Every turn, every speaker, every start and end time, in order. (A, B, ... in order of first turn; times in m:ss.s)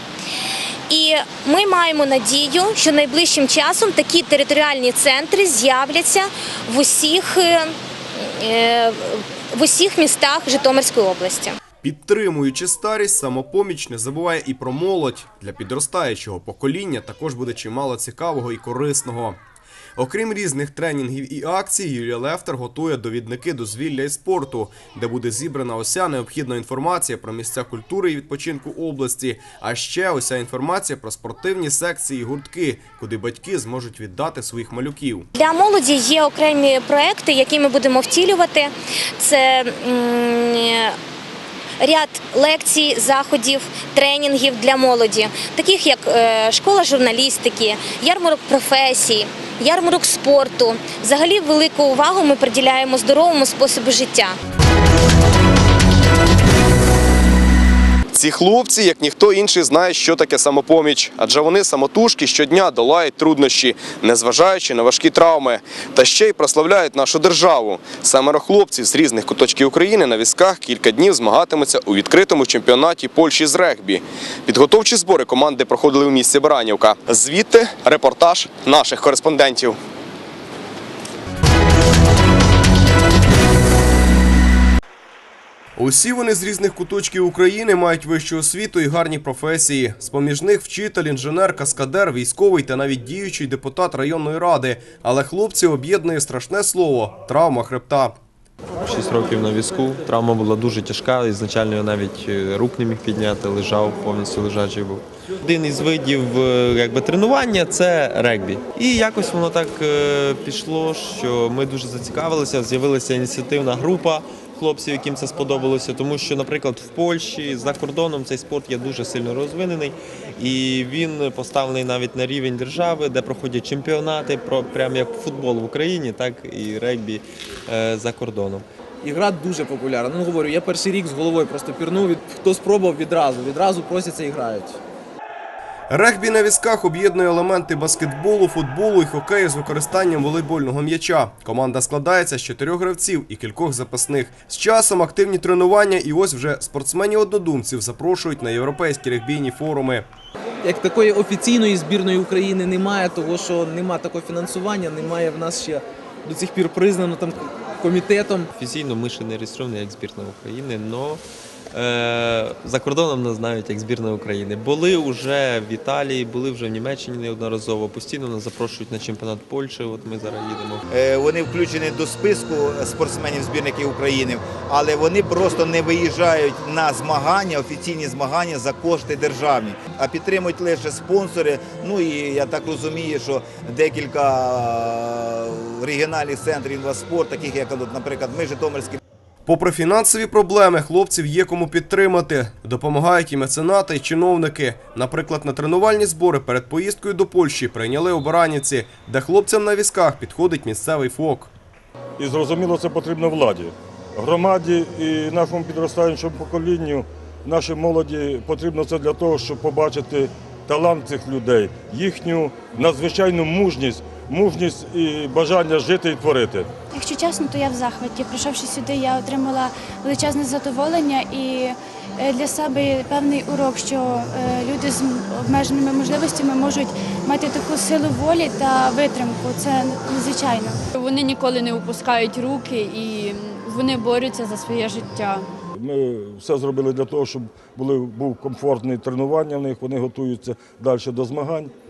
0:00.9-0:11.6 A
0:11.8-0:19.4 B
0:20.0-0:35.3 B
0:35.4-0:41.0 A
0:41.8-0:54.4 A
0:58.1-1:19.8 B
1:25.8-1:38.2 B
1:38.8-2:08.6 C
2:09.0-2:14.8 D
2:15.9-2:30.0 B
2:30.6-2:38.5 D
2:38.5-2:50.8 C
2:50.9-3:09.0 E
3:09.4-3:21.5 B
3:22.2-3:36.7 F
3:36.9-3:50.8 G
3:50.9-3:55.5 H
3:55.8-4:01.7 F